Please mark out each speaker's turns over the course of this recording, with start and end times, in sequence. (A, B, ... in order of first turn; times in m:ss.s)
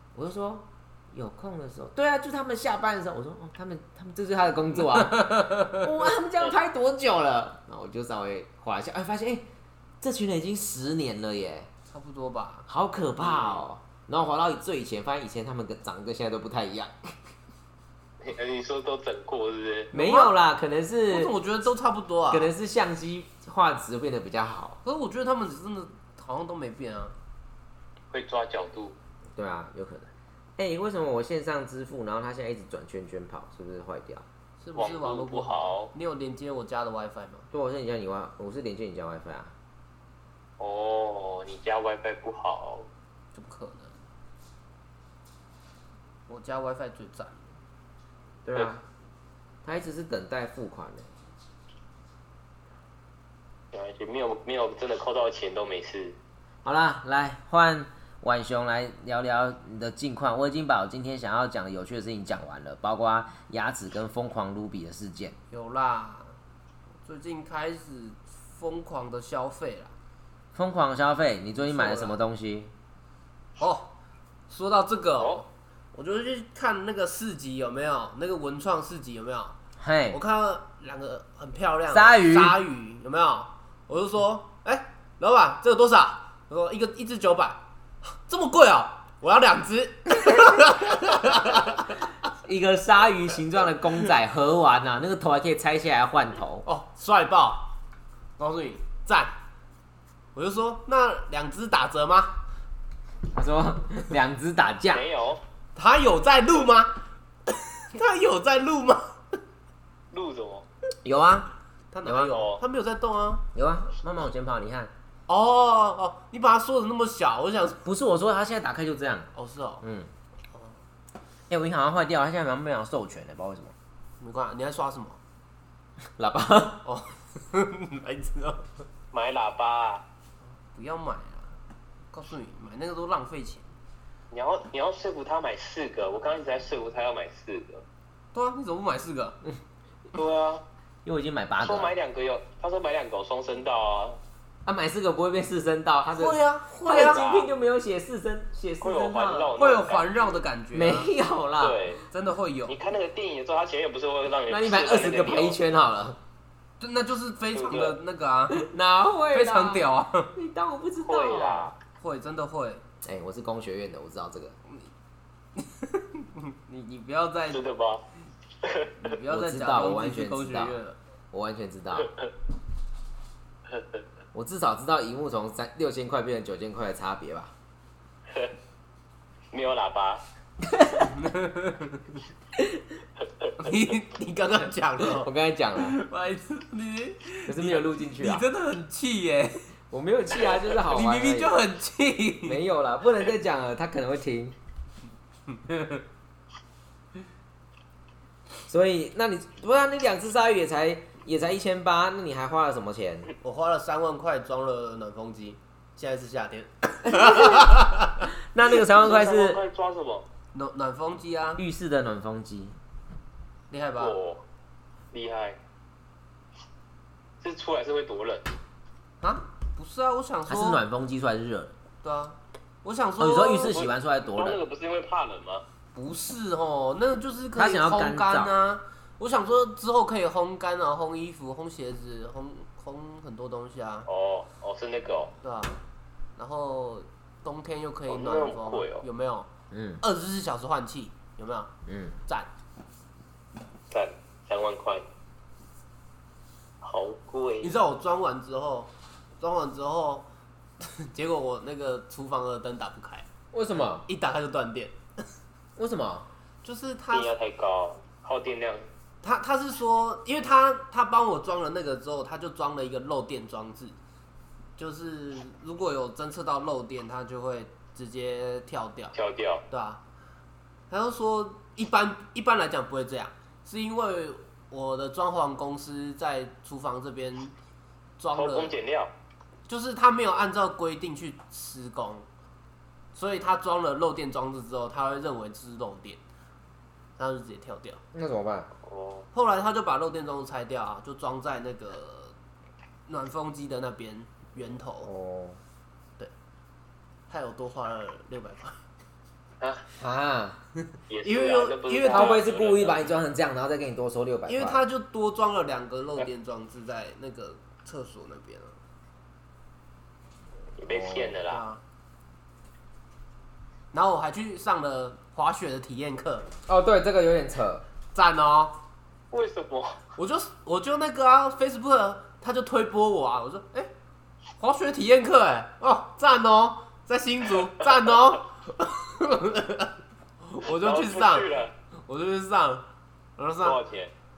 0:00.1-0:09.4 A
0:04.9-0:05.9 B
0:10.0-0:11.7 A
0:11.9-0:12.7 B
0:12.7-0:17.1 A
0:13.2-0:13.6 C
0:18.2-0:19.9 C
0:19.9-0:21.3 A
0:19.9-0:20.3 B
0:21.1-0:22.5 B
0:22.3-0:24.8 A
0:24.8-0:27.2 B
0:28.1-0:29.0 C
0:29.3-0:34.2 A
0:34.6-0:37.5 B
0:34.7-0:35.9 C
0:37.5-0:39.5 A
0:40.6-0:42.9 C
0:43.3-0:44.0 B
0:46.3-0:47.6 B
0:48.4-0:48.8 A
0:49.6-0:51.1 A
0:53.7-0:56.2 C
0:56.6-1:05.4 A
1:05.5-1:06.4 B
1:07.0-1:09.9 B
1:10.5-1:12.7 A
1:11.6-1:12.2 B
1:13.6-1:13.9 B
1:14.5-1:19.6 B
1:15.2-1:15.4 C
1:19.8-1:20.2 A
1:20.1-1:32.0 B
1:21.9-1:22.6 A
1:32.4-1:36.6 A
1:36.6-1:37.7 B
1:38.4-1:39.3 B
1:40.3-1:42.4 B
1:43.3-1:45.0 A
1:44.9-1:45.4 C
1:45.8-1:49.1 B
1:50.1-1:50.7 C
1:51.0-1:51.5 A
1:51.9-1:53.4 B
1:52.0-1:52.3 A
1:52.1-1:52.6 C
1:53.5-1:54.9 A
1:55.3-1:57.9 B
1:57.8-1:59.3 A
1:59.3-1:59.8 B
1:59.8-2:00.1 A
2:00.5-2:00.8 B
2:01.5-2:03.7 A
2:04.2-2:05.2 B
2:06.2-2:06.8 A
2:06.8-2:08.7 B
2:09.1-2:10.0 C
2:10.7-2:11.6 B
2:12.1-2:13.7 B
2:14.3-2:17.8 C
2:18.3-2:19.4 B
2:20.1-2:20.6 C
2:21.0-2:21.9 A
2:21.6-2:24.2 C
2:24.6-2:29.5 A
2:26.1-2:27.2 B
2:26.8-2:27.5 C
2:28.8-2:30.4 C
2:29.6-2:31.1 B
2:30.7-2:31.8 A
2:31.6-2:32.0 C
2:32.1-2:32.8 B
2:32.7-2:35.6 C
2:34.5-2:36.2 A
2:36.8-2:38.7 B
2:37.5-2:38.0 C
2:38.5-2:41.7 A
2:39.3-2:40.3 B
2:41.0-2:41.7 C
2:42.0-2:42.8 B
2:43.0-2:44.6 A
2:45.5-2:47.6 B
2:47.5-2:48.0 C
2:48.6-2:48.9 C
2:49.0-2:51.0 B
2:49.2-2:50.8 A
2:51.3-2:52.1 A
2:54.3-2:57.5 A
2:59.5-3:00.2 C
3:00.6-3:01.1 A
3:01.0-3:02.2 B
3:03.6-3:09.7 B
3:05.0-3:06.0 A
3:07.5-3:08.5 A
3:09.9-3:11.6 A
3:10.4-3:12.6 B
3:12.4-3:14.6 A
3:15.5-3:16.0 B
3:18.7-3:23.3 A
3:23.4-3:28.3 B
3:27.0-3:27.8 A
3:28.4-3:29.6 A
3:28.9-3:30.3 C
3:30.5-3:31.6 B
3:31.6-3:32.8 A
3:33.7-3:34.2 B
3:34.0-3:34.4 C
3:35.1-3:35.6 C
3:37.4-3:38.5 C
3:39.2-3:40.8 B
3:40.5-3:41.7 A
3:42.0-3:43.8 B
3:43.2-3:44.6 A
3:43.7-3:45.6 C
3:45.9-3:54.1 B
3:47.5-3:48.5 A
3:54.1-3:55.3 C
3:55.4-3:55.8 B
3:56.4-3:59.5 B
3:58.1-3:59.0 C
3:59.7-4:00.0 A
4:00.0-4:01.7 B
4:01.9-4:02.2 A
4:03.9-4:05.1 C
4:06.8-4:07.8 C
4:07.6-4:10.3 B
4:10.8-4:14.9 B
4:13.5-4:14.0 A
4:15.8-4:16.3 A
4:16.6-4:17.3 B
4:17.1-4:18.9 C
4:19.2-4:24.0 B
4:24.8-4:29.1 B
4:29.1-4:29.6 C
4:29.7-4:30.0 B
4:30.9-4:37.5 B
4:38.2-4:38.8 B
4:38.3-4:39.1 C
4:39.7-4:42.3 B
4:43.1-4:46.2 B
4:47.2-4:48.0 B
4:48.1-4:48.7 A
4:48.8-4:49.3 C
4:49.3-4:52.4 B
4:53.1-4:55.1 B
4:55.0-4:55.6 A
4:57.3-4:58.8 B
5:00.0-5:00.6 A
5:01.1-5:03.1 C
5:01.2-5:02.4 B
5:02.1-5:04.8 A
5:04.5-5:08.8 B
5:10.8-5:11.6 C
5:10.9-5:11.4 A
5:11.5-5:11.8 B
5:13.9-5:16.5 B
5:16.7-5:17.8 A
5:18.1-5:18.8 B
5:19.3-5:20.0 C
5:20.2-5:23.9 B
5:24.6-5:32.9 B
5:30.6-5:31.7 C
5:33.4-5:33.8 B
5:33.6-5:34.1 C